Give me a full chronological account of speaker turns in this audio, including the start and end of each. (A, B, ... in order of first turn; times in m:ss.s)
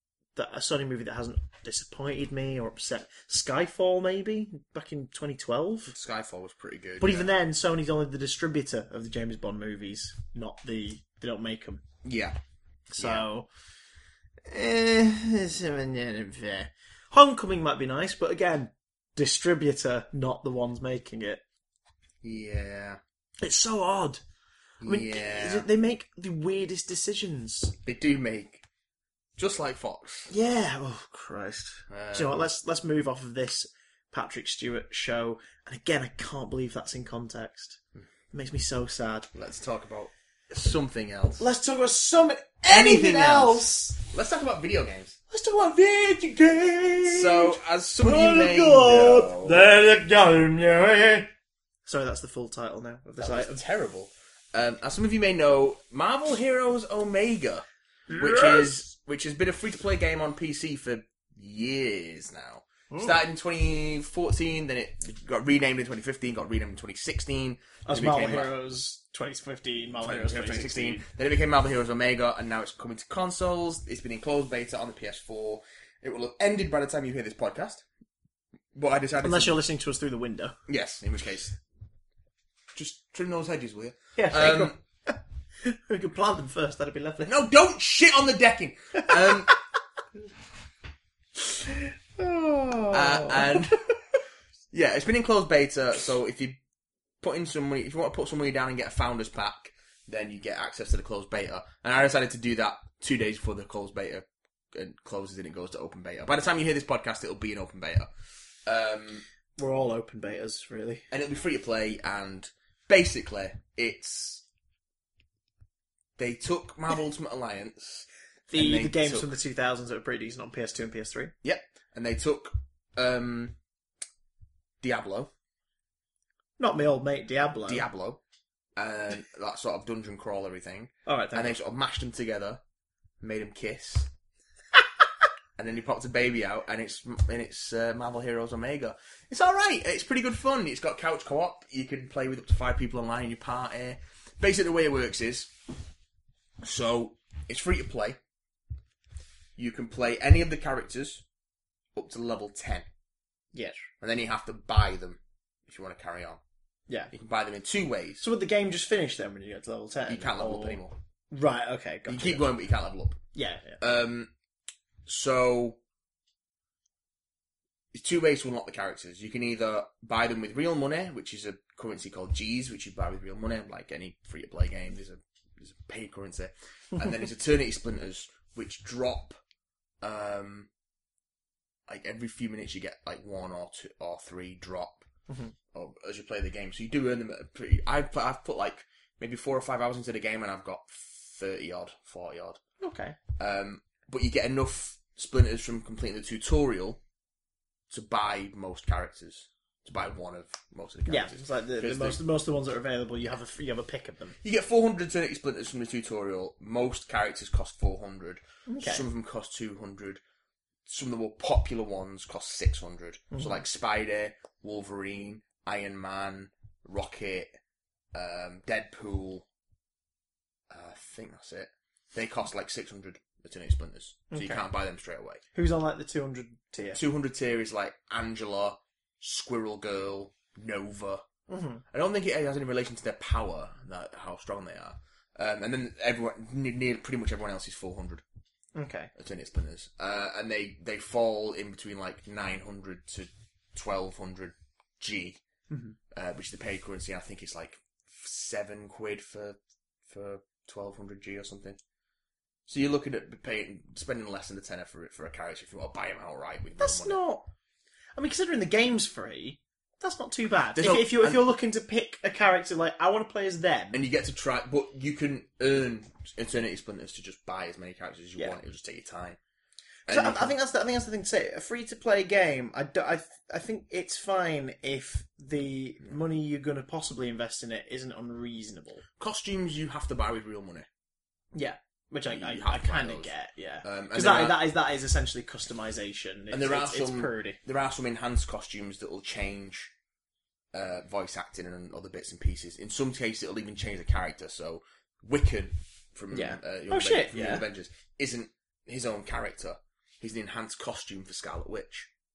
0:00.4-0:05.9 A
0:05.9-0:07.3 B
0:07.0-0:11.8 A
0:12.0-0:12.4 B
0:12.9-0:13.5 A
0:13.0-0:13.2 B
0:14.5-0:21.4 A
0:22.2-0:23.0 B
0:23.4-0:24.2 A
0:24.8-0:25.7 B
0:24.8-0:27.7 A
0:27.8-0:28.6 B
0:29.4-0:30.3 B
0:30.3-0:37.8 A
0:31.9-0:32.5 B
0:38.3-0:39.3 A
0:39.3-0:41.5 B
0:41.4-0:44.0 A
0:42.6-0:45.2 B
0:45.3-0:51.3 A
0:47.0-0:49.6 B
0:51.8-0:53.6 A
0:53.2-1:08.5 B
0:58.1-0:58.8 A
1:02.9-1:03.2 A
1:07.8-1:11.0 A
1:10.0-1:17.8 B
1:18.7-1:19.6 B
1:19.2-1:20.6 A
1:20.7-1:21.6 B
1:22.7-1:24.8 B
1:24.2-1:27.3 A
1:27.2-1:29.5 B
1:31.6-1:33.9 A
1:32.9-1:33.8 B
1:34.7-1:36.6 B
1:37.2-1:48.1 B
1:48.6-1:49.2 B
1:49.6-1:51.0 A
1:51.1-1:54.4 B
1:56.2-1:59.3 B
1:58.5-2:01.3 A
2:01.4-2:03.5 B
2:04.8-2:05.3 B
2:06.6-2:07.9 A
2:07.6-2:08.2 B
2:08.8-2:12.6 B
2:11.0-2:11.6 A
2:13.2-2:14.1 B
2:15.6-2:25.5 B
2:26.6-2:28.2 B
2:29.6-2:31.2 B
2:31.9-2:32.8 B
2:33.5-2:33.8 A
2:34.0-2:36.4 B
2:37.1-2:38.2 B
2:38.2-2:42.5 A
2:40.1-2:41.0 B
2:42.1-2:43.2 B
2:43.3-2:43.8 A
2:43.8-2:44.3 B
2:45.0-2:45.8 B
2:47.9-2:59.4 B
3:00.0-3:00.7 B
3:01.9-3:05.0 B
3:05.3-3:05.5 A
3:05.7-3:12.6 B
3:12.8-3:13.2 A
3:13.4-3:17.0 B
3:17.9-3:22.2 B
3:21.1-3:24.4 A
3:24.4-3:30.2 B
3:28.7-3:29.1 A
3:30.9-3:37.5 B
3:38.1-3:39.4 B
3:40.7-3:45.4 B
3:44.3-3:44.6 A
3:45.5-3:47.0 A
3:46.9-3:51.2 B
3:51.5-3:51.8 A
3:51.9-3:58.2 B
3:58.7-3:59.1 A
3:59.1-4:05.4 B
4:05.7-4:06.0 A
4:06.1-4:09.6 B
4:10.1-4:11.8 B
4:12.7-4:17.2 B
4:16.8-4:17.5 A
4:18.2-4:24.0 A
4:20.8-4:21.4 B
4:23.9-4:29.4 B
4:30.1-4:30.5 B
4:30.1-4:39.0 A
4:39.2-4:40.9 B
4:41.5-4:47.6 A
4:42.3-4:44.6 B
4:46.5-4:49.9 B
4:50.7-5:02.1 B
4:56.3-4:57.6 A